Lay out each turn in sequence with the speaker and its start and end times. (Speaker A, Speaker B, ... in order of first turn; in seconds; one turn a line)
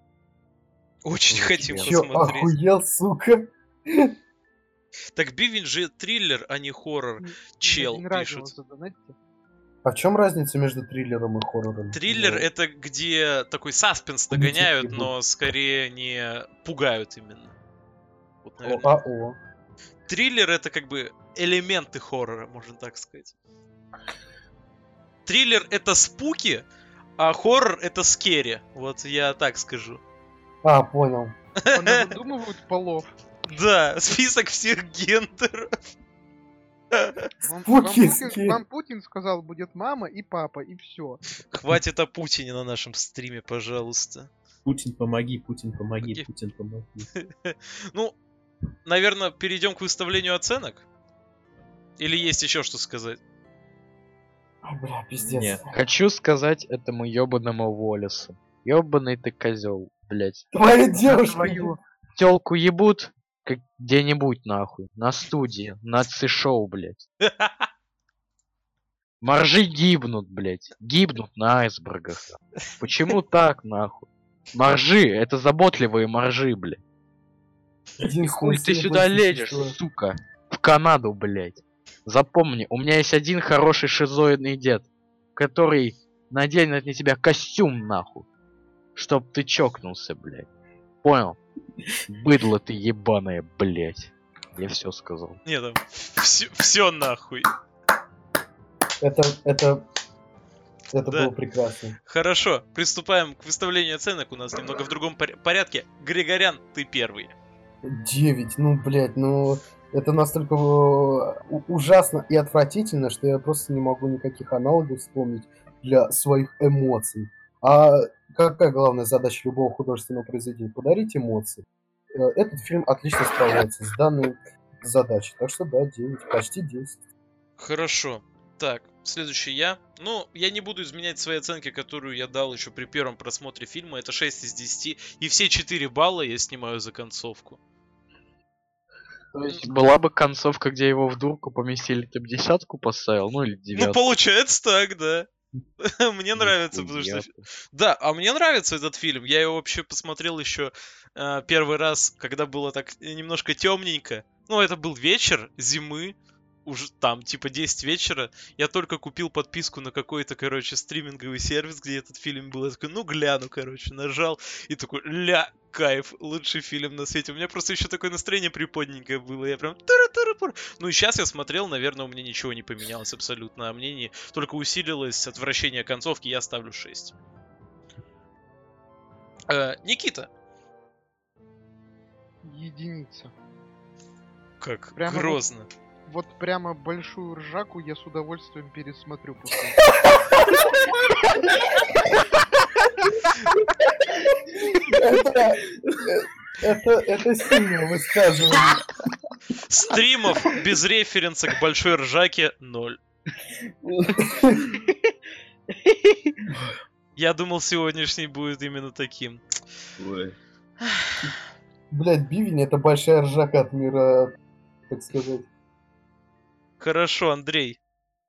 Speaker A: 1.0-2.5
Speaker B: 1.3-2.0
Speaker C: 1.8-4.1
Speaker A: 5.1-8.5
Speaker D: 7.2-9.1
Speaker C: 9.8-12.5
Speaker A: 11.9-17.5
Speaker C: 14.3-15.1
Speaker A: 18.4-18.9
Speaker C: 18.6-19.4
Speaker A: 20.1-23.3
Speaker A: 25.2-26.6
Speaker A: 27.2-30.0
Speaker C: 30.6-31.3
Speaker A: 31.7-32.2
Speaker D: 31.7-33.1
Speaker A: 33.5-35.7
Speaker D: 37.4-41.2
Speaker C: 37.6-38.6
Speaker A: 41.5-44.3
Speaker E: 44.6-47.1
Speaker A: 47.2-48.1
Speaker A: 48.9-50.8
Speaker A: 52.0-53.2
Speaker C: 54.6-55.8
Speaker E: 55.2-55.6
Speaker B: 55.7-60.5
Speaker C: 60.5-61.8
Speaker B: 61.0-67.0
Speaker A: 67.2-67.7
Speaker B: 69.2-76.8
Speaker C: 78.0-79.8
Speaker B: 78.2-88.2
Speaker B: 88.9-90.5
Speaker B: 91.0-91.4
Speaker B: 92.1-95.4
Speaker A: 95.5-97.5
Speaker C: 99.0-99.8
Speaker C: 100.9-102.0
Speaker A: 101.1-101.3
Speaker A: 102.1-107.3
Speaker C: 107.8-127.0
Speaker A: 127.6-137.6
Speaker B: 139.3-144.0
Speaker A: 143.7-145.3
Speaker A: 145.8-177.1
Speaker B: 146.4-147.4
Speaker A: 179.5-180.3
Speaker D: 182.4-183.3
Speaker A: 184.6-185.7
Speaker D: 184.9-185.4
Speaker D: 186.1-189.8
Speaker C: 190.0-192.2
Speaker C: 193.4-198.9
Speaker A: 199.7-203.0
Speaker C: 203.8-204.8
Speaker B: 205.7-206.3
Speaker A: 207.2-209.4
Speaker E: 210.0-210.3
Speaker C: 211.9-214.3
Speaker C: 214.9-215.5
Speaker A: 216.8-217.8